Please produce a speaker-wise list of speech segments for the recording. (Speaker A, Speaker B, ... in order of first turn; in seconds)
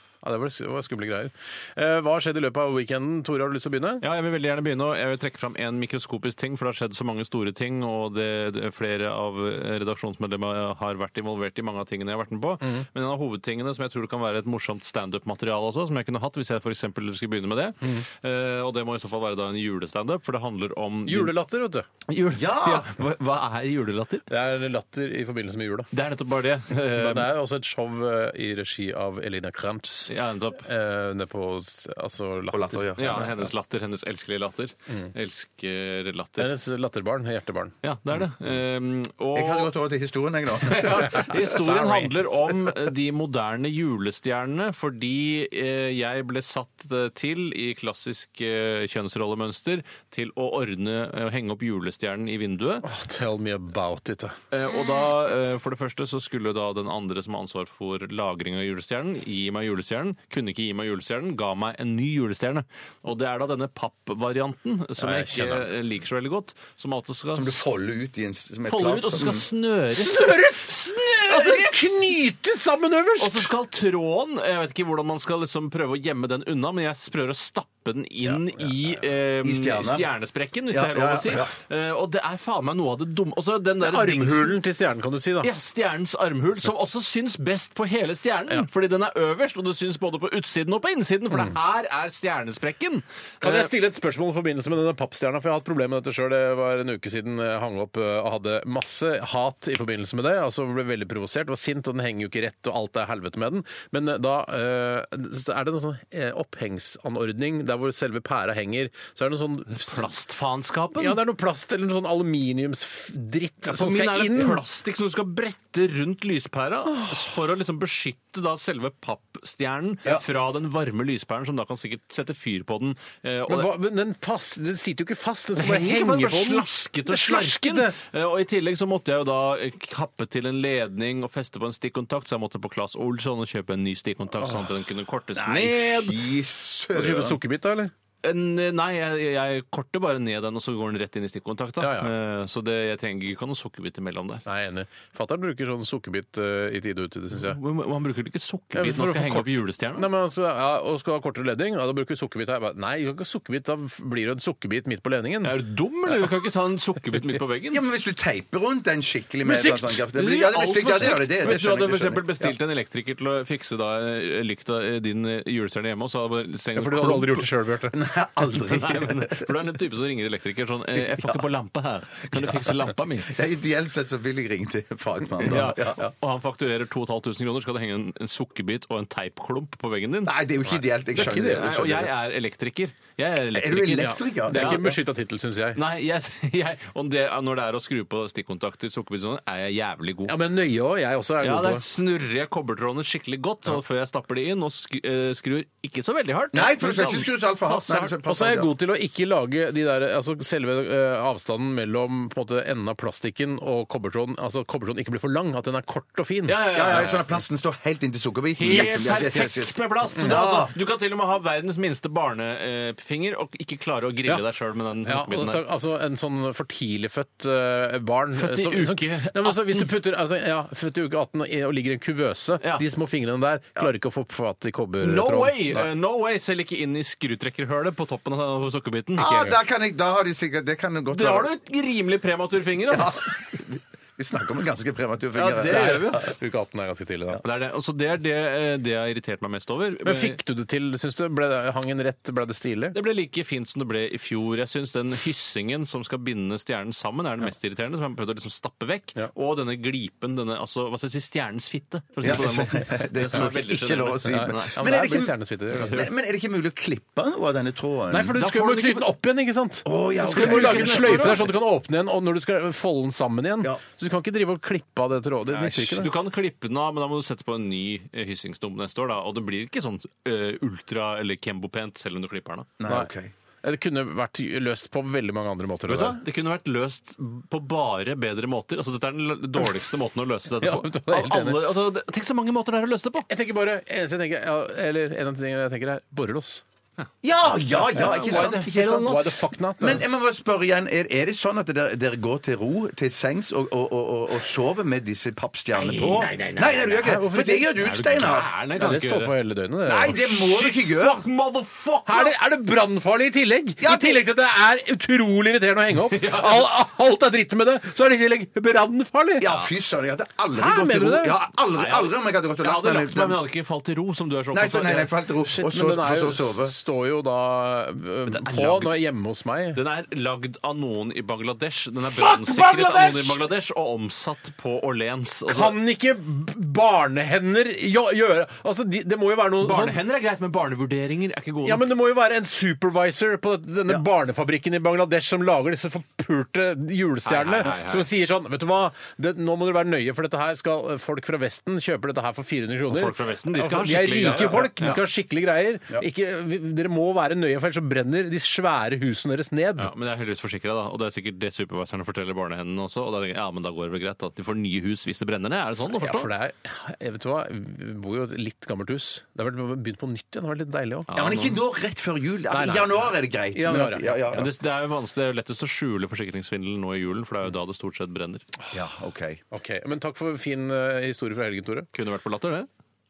Speaker A: 0.2-4.0, 21.1-21.9, 24.3-25.9, 26.7-33.2, 36.4-37.8, 41.3-42.1, 52.8-54.4, 65.0-65.7, 70.0-73.5, 83.8-85.5, 93.4-110.1, 111.0-114.6, 116.9-117.3, 123.5-128.0, 136.9-137.9, 141.8-142.1, 144.5-147.6, 148.7-155.6, 166.8-168.0, 181.2-181.7, 184.0-185.8, 190.3-191.8, 198.2-207.1, 208.7-209.5, 210.2-210.7, 215.0-225.9, 235.5-237.4, 240.0-243.0, 254.2-256.0, 258.1-266.1, 273.6-276.2, 280.6-281.8, 283.3-286.6, 287.9-290.2, 296.9-297.7, 298.8-300.3, 302.1-309.5, 310.5-311.4, 315.4-319.8, 322.1-323.4, 325.5-330.0, 331.6-349.9, 355.9-361.1, 362.5-364.5, 369.5-371.9
Speaker B: 4.0-21.3, 22.1-24.3, 25.9-27.3, 30.1-30.7, 33.0-36.5, 37.8-39.7, 40.6-52.9, 54.5-67.7, 68.7-71.8, 73.2-84.6, 85.4-93.7, 109.7-111.2, 113.6-123.7, 125.6-136.2, 138.2-144.4, 147.3-150.1, 155.4-157.8, 159.5-167.5, 168.4-173.3, 175.4-180.3, 181.1-184.9, 185.8-190.4, 191.4-198.1, 206.5-207.3, 208.6-215.6, 218.4-219.9, 225.0-229.6, 231.1-233.3, 235.4-236.3, 237.4-240.4, 242.9-254.8, 255.8-256.1, 258.4-259.1, 260.2-261.4, 266.0-272.7, 275.9-283.3, 287.7-289.0, 295.8-297.0, 297.8-299.4, 300.2-302.3, 306.1-306.7, 311.7-315.1, 318.3-319.0, 319.7-325.8, 329.6-331.9, 337.3-338.1, 342.9-345.0, 349.8-356.3, 361.1-361.6, 364.3-368.4, 371.9-372.7
Speaker C: 22.4-22.9, 32.5-33.3, 39.4-41.3, 67.3-69.5, 78.2-80.1, 80.7-81.5, 135.3-137.4, 157.7-162.5, 167.9-169.5, 171.2-171.4, 172.3-172.7, 173.2-176.1, 180.2-182.1, 183.5-185.0, 196.5-198.7, 206.7-210.7, 229.2-231.5, 232.9-236.2, 252.2-258.4, 259.9-261.5, 265.5-266.1, 272.8-273.3, 287.2-298.5, 299.9-301.2, 303.8-304.2, 309.4-313.4, 314.5-316.8, 344.2-345.0, 361.1-364.5, 368.7-369.4